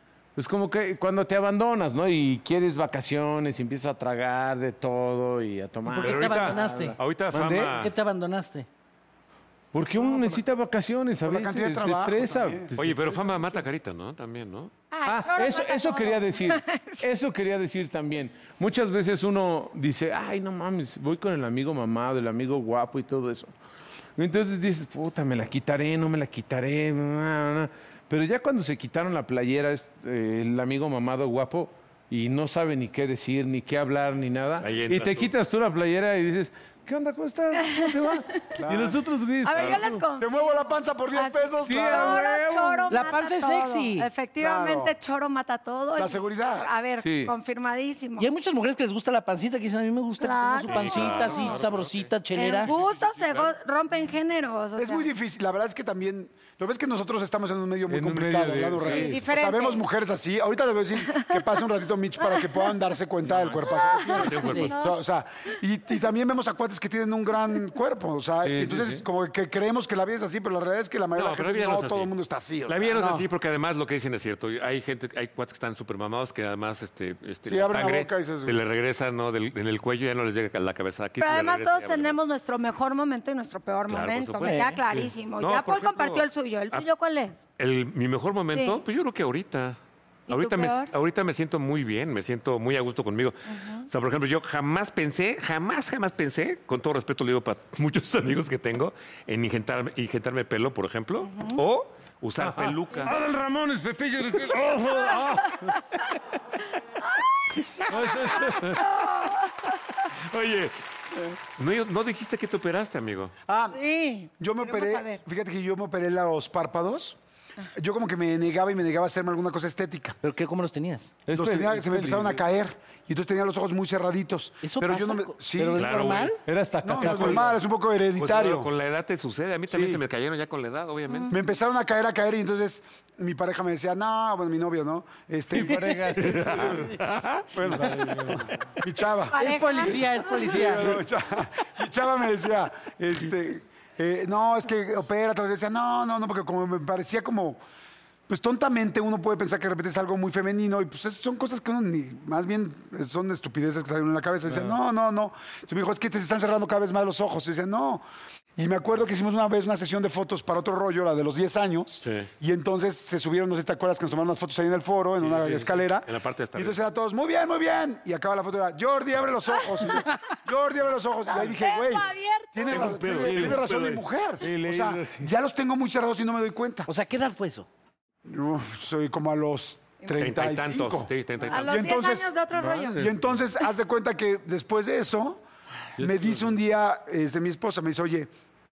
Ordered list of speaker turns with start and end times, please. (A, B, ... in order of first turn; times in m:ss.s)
0:00.4-0:07.8 A
0:05.9-0:07.0 B
0:06.0-0:07.9 C
0:07.7-0:08.7 B
0:09.7-0:13.5 A
0:10.0-0:10.4 D
0:11.2-0:12.7 D
0:12.8-0:14.7 C
0:14.9-0:17.0 E
0:15.0-0:23.5 A
0:24.2-0:40.0 A
0:34.6-0:35.3 C
0:38.5-0:39.0 D
0:39.4-0:48.3 E
0:40.2-0:42.2 D
0:41.6-0:43.0 A
0:42.9-0:44.1 B
0:44.4-0:44.9 D
0:46.0-0:46.7 D
0:47.0-0:47.3 A
0:48.2-0:52.7 B
0:50.2-0:51.6 E
0:50.7-0:52.1 C
0:52.3-0:55.1 E
0:52.6-0:53.5 C
0:54.8-1:13.2 D
0:57.9-0:59.2 A
0:58.9-0:59.8 E
1:01.1-1:01.4 E
1:02.2-1:02.6 E
1:03.7-1:05.0 E
1:04.1-1:04.7 C
1:04.4-1:04.7 B
1:08.4-1:09.0 A
1:11.2-1:12.1 C
1:12.7-1:22.2 C
1:17.4-1:18.6 D
1:21.2-1:27.4 E
1:23.9-1:26.8 C
1:24.4-1:24.8 B
1:27.6-1:29.8 C
1:28.5-1:28.8 E
1:30.3-1:30.9 E
1:30.3-1:43.2 C
1:33.5-1:33.9 E
1:41.2-1:41.6 E
1:42.4-1:46.0 A
1:47.8-1:49.0 A
1:48.4-1:49.7 E
1:50.3-1:50.8 C
1:51.6-1:53.3 C
1:53.5-1:53.8 D
1:53.7-1:55.2 E
1:54.4-1:57.2 D
1:57.7-2:00.2 D
2:00.2-2:01.2 B
2:01.2-2:02.4 A
2:01.3-2:05.9 D
2:04.6-2:06.4 B
2:05.7-2:06.3 C
2:06.4-2:07.6 A
2:06.8-2:08.7 D
2:07.0-2:07.5 C
2:08.2-2:11.4 C
2:09.7-2:10.0 D
2:11.1-2:11.4 E
2:11.3-2:16.8 D
2:15.5-2:16.9 A
2:16.2-2:17.5 C
2:17.5-2:27.6 D
2:17.6-2:18.6 A
2:19.3-2:20.6 E
2:19.3-2:20.9 B
2:28.3-2:38.0 D
2:34.5-2:34.8 A
2:38.6-2:56.9 D
2:42.0-2:42.3 C
2:45.2-2:46.8 C
2:49.5-2:50.0 E
2:51.3-2:52.8 E
2:52.7-2:54.0 C
2:54.4-2:55.3 A
2:56.9-2:57.7 B
2:58.2-3:02.4 D
3:00.2-3:01.8 C
3:01.5-3:03.0 E
3:02.6-3:03.2 A
3:02.9-3:05.4 D
3:06.0-3:08.3 D